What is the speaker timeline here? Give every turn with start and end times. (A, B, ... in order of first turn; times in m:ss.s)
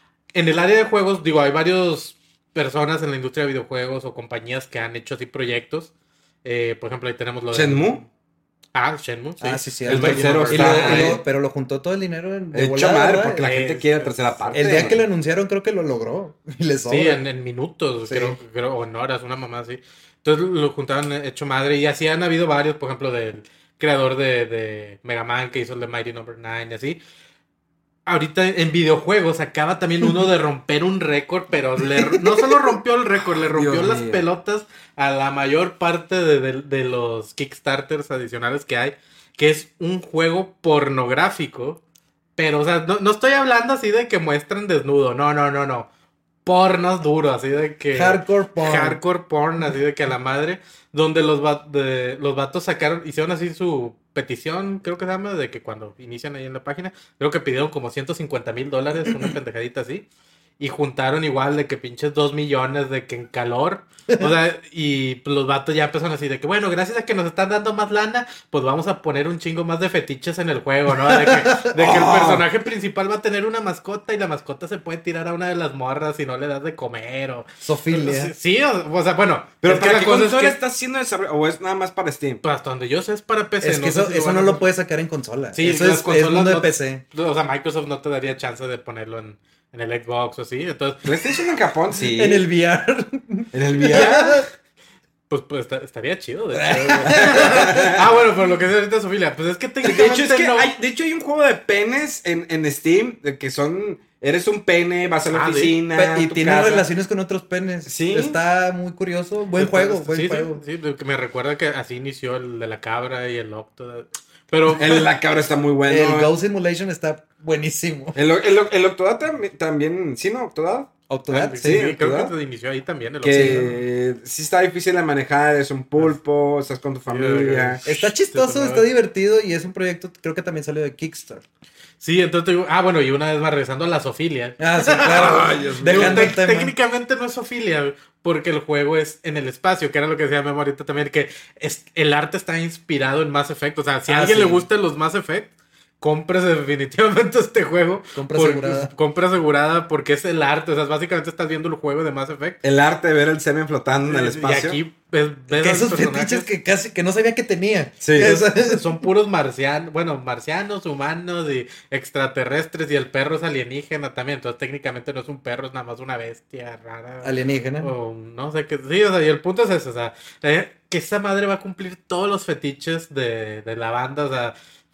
0:00.3-0:05.9 A
0:06.4-0:08.0 A
0:07.5-0:08.0 B
0:08.7-0:11.2 A
0:09.4-0:13.4 C
0:09.9-0:11.2 B
0:12.5-0:15.0 B
0:13.4-0:15.0 A
0:14.5-0:17.2 C
0:16.9-0:27.0 A
0:18.1-0:18.4 C
0:28.0-0:41.8 A
0:33.5-0:34.2 B
0:42.4-0:45.9 A
0:46.4-1:00.0 A
0:47.9-0:49.0 C
1:00.6-1:20.6 A
1:11.0-1:11.8 C
1:11.8-1:12.4 B
1:17.6-1:18.3 C
1:19.6-1:22.4 B
1:22.4-1:24.6 A
1:23.6-1:27.0 C
1:25.5-1:31.1 A
1:31.0-1:32.4 B
1:32.1-1:34.5 C
1:33.5-1:34.4 B
1:35.3-1:40.7 A
1:36.5-1:38.0 C
1:37.1-1:38.1 B
1:39.8-1:46.9 B
1:45.3-1:45.8 A
1:45.9-1:50.6 C
1:47.9-1:48.4 B
1:49.6-1:55.0 A
1:54.8-1:56.3 B
1:55.9-1:58.2 C
1:58.1-2:00.9 B
2:01.1-2:01.9 C
2:01.3-2:03.7 A
2:01.6-2:02.3 B
2:03.2-2:07.8 B
2:03.3-2:03.7 C
2:07.1-2:08.9 A
2:07.8-2:11.4 C
2:12.0-2:25.5 A
2:14.6-2:16.7 C
2:15.0-2:16.3 B
2:24.1-2:24.6 C
2:26.0-2:32.6 A
2:28.1-2:28.9 C
2:32.6-2:34.8 B
2:34.1-2:36.5 A
2:35.5-2:38.9 C
2:38.0-2:38.4 B
2:38.2-2:54.5 A
2:47.2-2:47.9 C